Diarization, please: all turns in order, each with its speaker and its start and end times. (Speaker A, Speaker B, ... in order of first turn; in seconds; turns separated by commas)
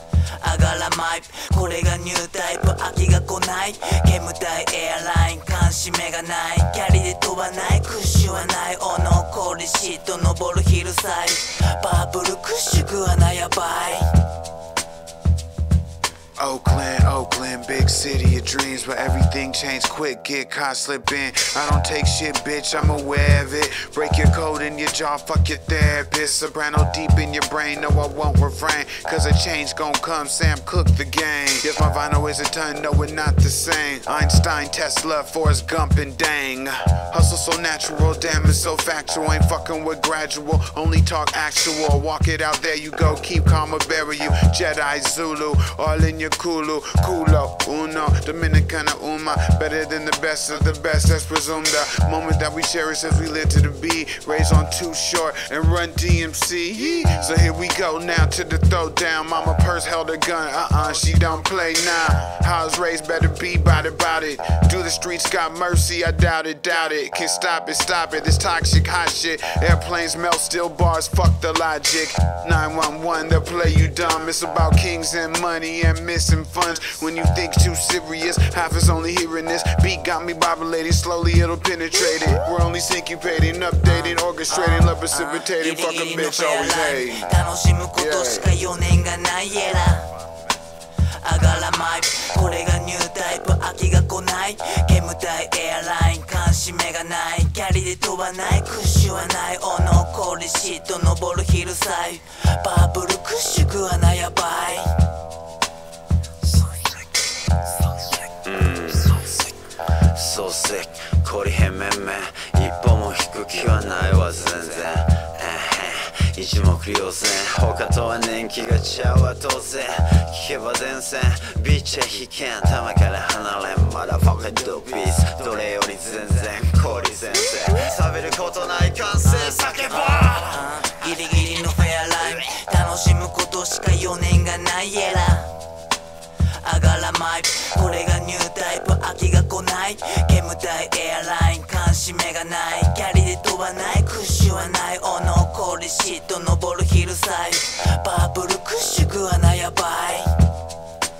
Speaker A: 0.4-14.1, Speaker B: 16.4-87.3, Speaker A: 83.9-90.1, Speaker B: 88.0-88.5, Speaker A: 91.2-104.9, Speaker C: 108.4-109.5, Speaker C: 110.1-130.5, Speaker A: 129.9-135.5, Speaker A: 136.6-150.3